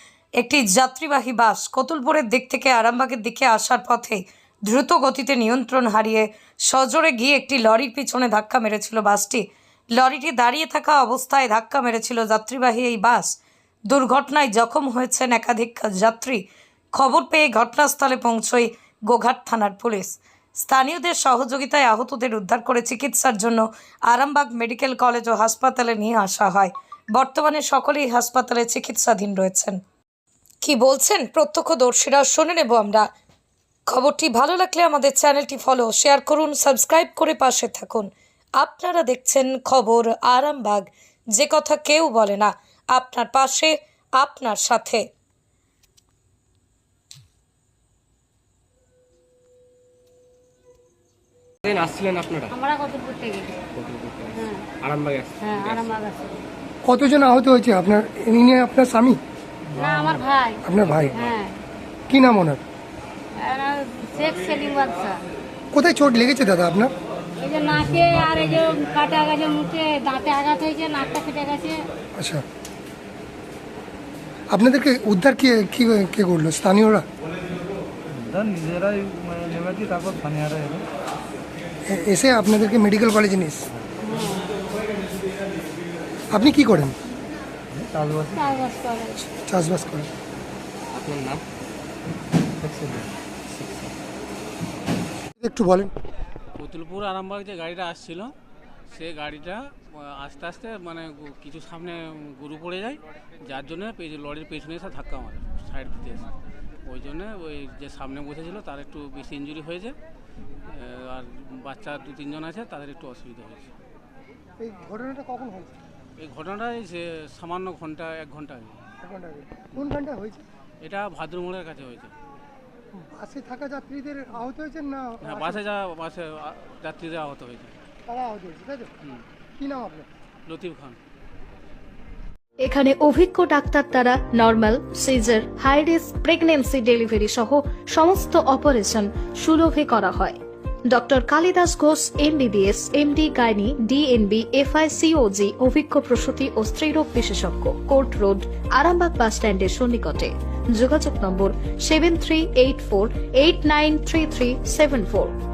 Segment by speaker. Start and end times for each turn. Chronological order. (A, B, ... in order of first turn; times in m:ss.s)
0:00.4-0:13.4 A
0:13.9-0:29.8 A
0:30.6-0:33.1 A
0:33.9-0:45.1 A
0:51.6-0:52.6 B
0:52.5-0:53.6 C
0:53.8-0:55.9 B
0:54.4-0:54.7 C
0:55.4-0:56.4 C
0:56.8-0:59.2 D
0:59.8-1:01.6 C
0:59.8-1:00.1 B
1:00.6-1:01.2 D
1:00.7-1:01.4 B
1:02.1-1:02.6 D
1:03.4-1:05.2 C
1:05.7-1:06.9 D
1:07.4-1:11.9 C
1:07.8-1:08.5 E
1:12.2-1:12.4 D
1:14.5-1:17.1 D
1:18.2-1:20.9 E
1:21.9-1:23.7 D
1:24.0-1:24.6 C
1:26.3-1:27.0 D
1:27.8-1:28.5 E
1:28.3-1:29.2 C
1:29.4-1:30.1 D
1:30.9-1:31.4 B
1:32.7-1:33.1 B
1:35.4-1:35.9 D
1:36.6-1:38.3 F
1:38.9-1:46.3 F
1:46.9-1:50.0 F
1:50.7-1:53.7 F
1:54.6-1:55.8 D
1:56.2-1:58.8 F
1:59.0-2:00.4 D
2:00.8-2:02.2 F
2:03.0-2:05.6 D
2:05.2-2:07.8 F
2:08.1-2:08.9 D
2:09.6-2:10.1 D
2:10.5-2:11.0 F
2:12.6-2:20.4 G
2:20.9-2:35.3 G